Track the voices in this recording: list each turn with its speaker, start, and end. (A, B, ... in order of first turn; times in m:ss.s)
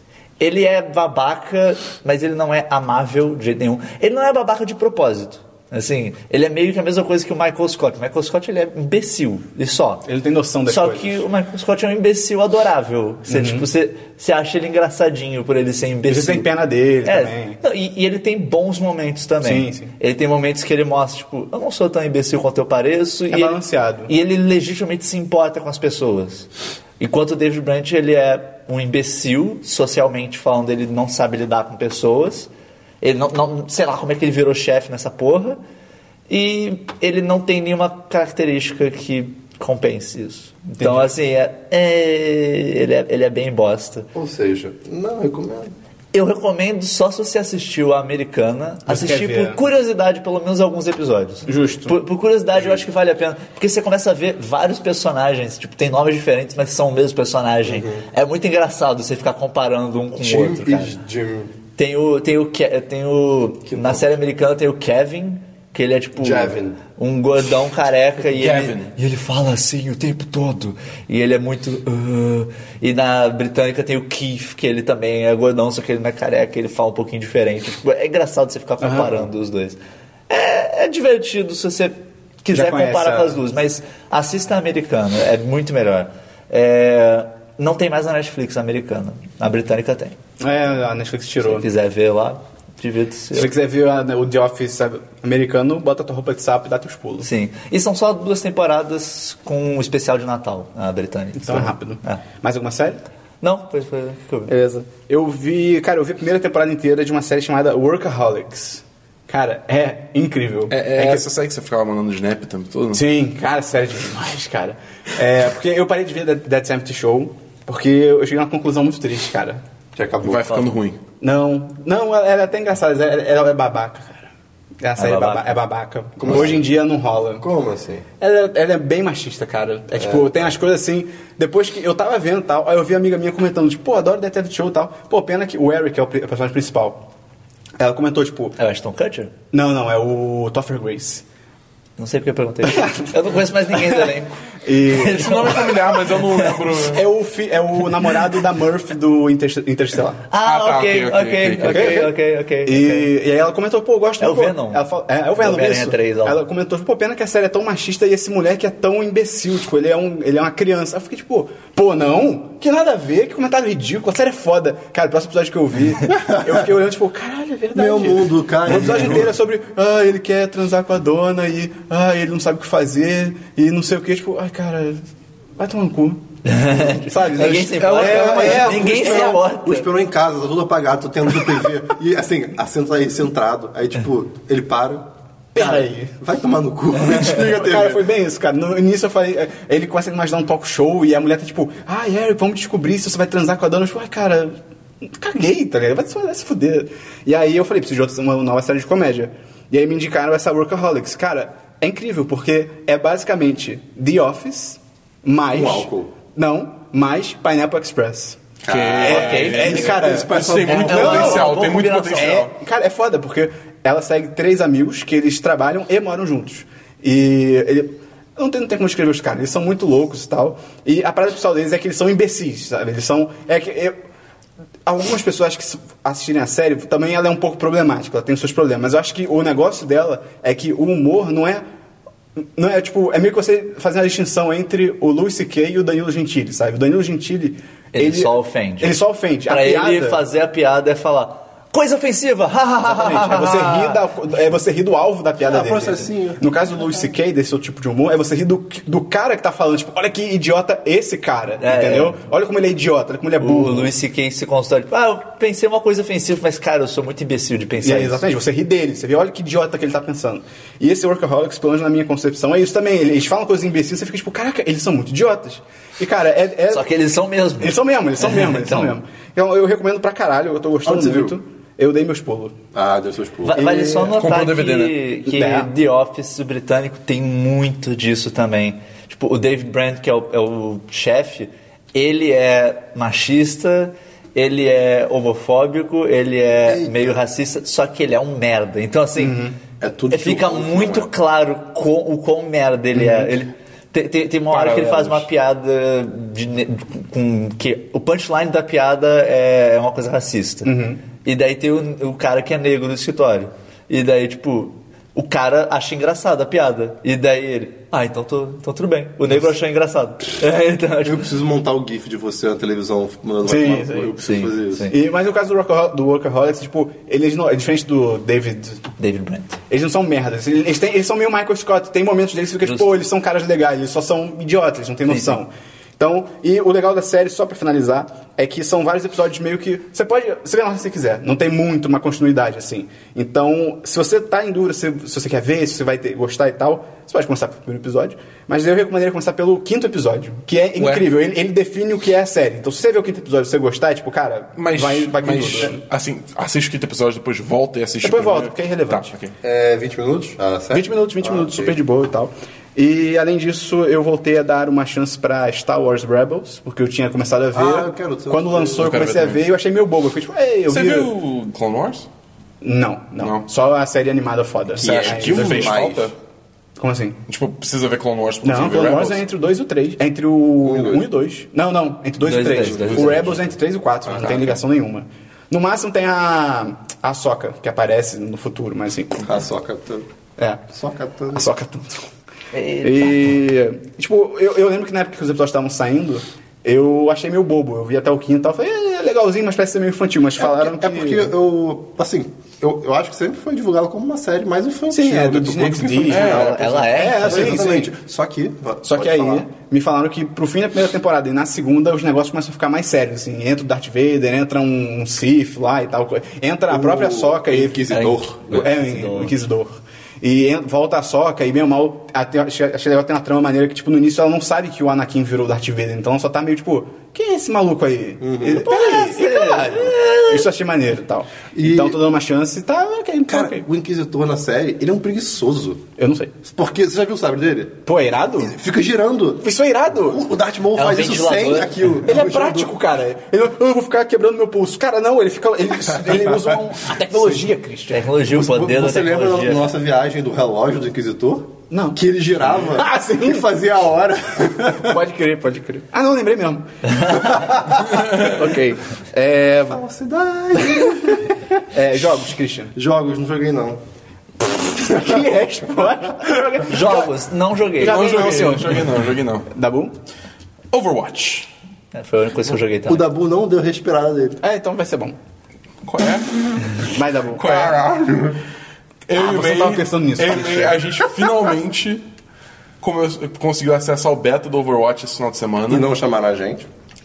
0:00.4-0:10.0 A
0:10.1-0:11.2 B
0:10.7-0:16.5 A
0:13.3-0:13.7 B
0:16.1-0:17.6 B
0:17.0-0:26.5 A
0:19.4-0:19.9 B
0:23.3-0:24.1 B
0:27.0-0:32.5 A
0:33.0-0:35.6 A
0:36.3-0:44.1 A
0:40.8-0:41.1 B
0:44.1-0:45.7 C
0:46.1-1:01.0 A
0:48.9-0:49.6 B
0:51.5-0:52.0 B
0:57.7-0:58.0 C
1:00.2-1:01.5 C
1:01.8-1:19.8 A
1:03.7-1:04.1 C
1:06.2-1:06.8 C
1:08.3-1:08.9 D
1:18.8-1:19.3 B
1:20.3-1:30.2 A
1:22.5-1:23.4 B
1:30.4-1:31.7 B
1:31.4-1:33.5 A
1:33.3-1:37.3 B
1:37.2-1:42.2 A
1:41.4-1:43.0 B
1:43.4-1:44.6 A
1:44.5-1:51.2 B
1:50.7-1:53.0 D
1:52.9-1:59.6 B
2:00.0-2:00.7 C
2:00.2-2:01.0 D
2:01.2-2:04.3 B
2:04.8-2:07.4 B
2:05.0-2:05.6 A
2:06.2-2:06.6 C
2:07.4-2:08.0 C
2:08.2-2:17.0 B
2:10.0-2:10.3 C
2:17.8-2:18.6 B
2:18.6-2:19.3 A
2:19.5-2:21.2 B
2:22.0-2:26.5 A
2:22.8-2:23.1 B
2:23.8-2:24.1 B
2:24.6-2:25.6 B
2:25.1-2:27.1 D
2:26.8-2:30.2 B
2:30.3-2:33.1 A
2:30.4-2:32.0 D
2:31.6-2:32.1 B
2:32.6-2:55.0 B
2:34.2-2:34.8 A
2:35.4-2:36.4 A
2:46.1-2:46.5 C
2:47.8-2:49.3 C
2:55.6-2:59.4 B
2:56.4-2:59.9 A
2:57.4-3:08.1 C
3:05.6-3:06.2 B
3:07.1-3:28.5 B
3:25.5-3:26.1 C
3:28.6-3:31.4 C
3:28.7-3:32.5 D
3:29.0-3:44.0 B
3:29.0-3:29.8 A
3:30.7-3:32.5 A
3:44.9-3:51.6 B
3:52.6-4:00.2 B
3:57.9-4:04.0 A
4:02.8-4:13.9 B
4:05.4-4:06.4 C
4:11.6-4:12.2 A
4:13.4-4:18.2 A
4:17.8-4:26.9 B
4:26.7-4:29.0 A
4:27.6-4:32.6 B
4:30.8-4:31.4 C
4:32.7-4:33.7 C
4:33.4-4:49.5 A
4:33.6-4:34.2 B
4:34.2-4:35.0 D
4:35.3-4:35.7 B
4:46.6-4:47.2 C
4:49.2-4:49.6 B
4:49.8-4:51.1 C
4:50.1-5:11.2 A
4:52.9-4:53.3 B
4:54.5-4:55.3 D
5:00.6-5:01.0 B
5:11.0-5:14.9 C
5:13.4-5:14.1 B
5:14.2-5:15.0 A
5:14.9-5:18.8 B
5:19.0-5:19.6 A
5:19.7-5:45.8 B
5:22.6-5:22.9 A
5:25.1-5:25.4 A
5:40.8-5:41.1 D
5:44.6-5:49.3 D
5:48.0-5:49.1 B
5:49.4-5:51.8 C
5:50.7-6:01.1 B
5:57.5-5:59.0 C
5:58.8-5:59.4 D
6:00.7-6:02.1 D
6:02.6-6:05.8 B
6:03.2-6:03.4 D
6:04.8-6:06.1 C
6:04.8-6:06.2 D
6:06.8-6:07.2 B
6:07.3-6:09.2 D
6:08.4-6:19.3 B
6:10.6-6:11.0 C
6:12.2-6:13.5 A
6:12.7-6:13.2 C
6:14.1-6:14.6 C
6:19.2-6:20.1 C
6:20.4-6:20.6 B
6:20.7-6:21.5 C
6:21.3-6:22.1 B
6:22.5-6:23.2 A
6:22.8-6:31.3 B
6:30.4-6:39.5 C
6:34.9-6:37.9 B
6:36.0-6:36.6 D
6:36.1-6:37.7 A
6:38.8-7:03.6 B
6:46.7-6:48.7 C
6:47.9-6:49.4 A
6:58.2-6:58.7 C
6:58.6-7:00.5 A
7:01.6-7:02.0 C
7:03.3-7:05.8 C
7:06.0-7:06.3 B
7:06.4-7:07.8 C
7:07.9-7:08.6 B
7:08.4-7:09.4 C
7:09.4-7:10.2 B
7:10.0-7:12.7 C
7:10.7-7:11.9 A
7:12.1-7:18.1 B
7:16.1-7:16.6 C
7:17.9-7:19.7 A
7:18.2-7:25.0 C
7:21.7-7:22.0 B
7:22.7-7:23.4 B
7:24.8-7:29.8 B
7:27.2-7:27.6 C
7:29.7-7:31.2 C
7:30.6-7:32.8 B
7:32.8-7:33.8 C
7:34.6-7:37.1 B
7:36.7-7:38.3 A
7:37.8-7:39.9 B
7:37.8-7:39.5 D
7:40.7-7:41.5 D
7:41.9-7:43.1 A
7:42.9-7:44.4 C
7:44.4-7:45.2 B
7:45.8-7:46.8 D
7:46.8-7:47.8 B
7:47.4-7:48.4 D
7:48.1-7:48.3 C
7:49.1-7:52.0 D
7:49.2-7:50.8 B
7:52.8-7:55.9 D
7:55.7-7:56.7 C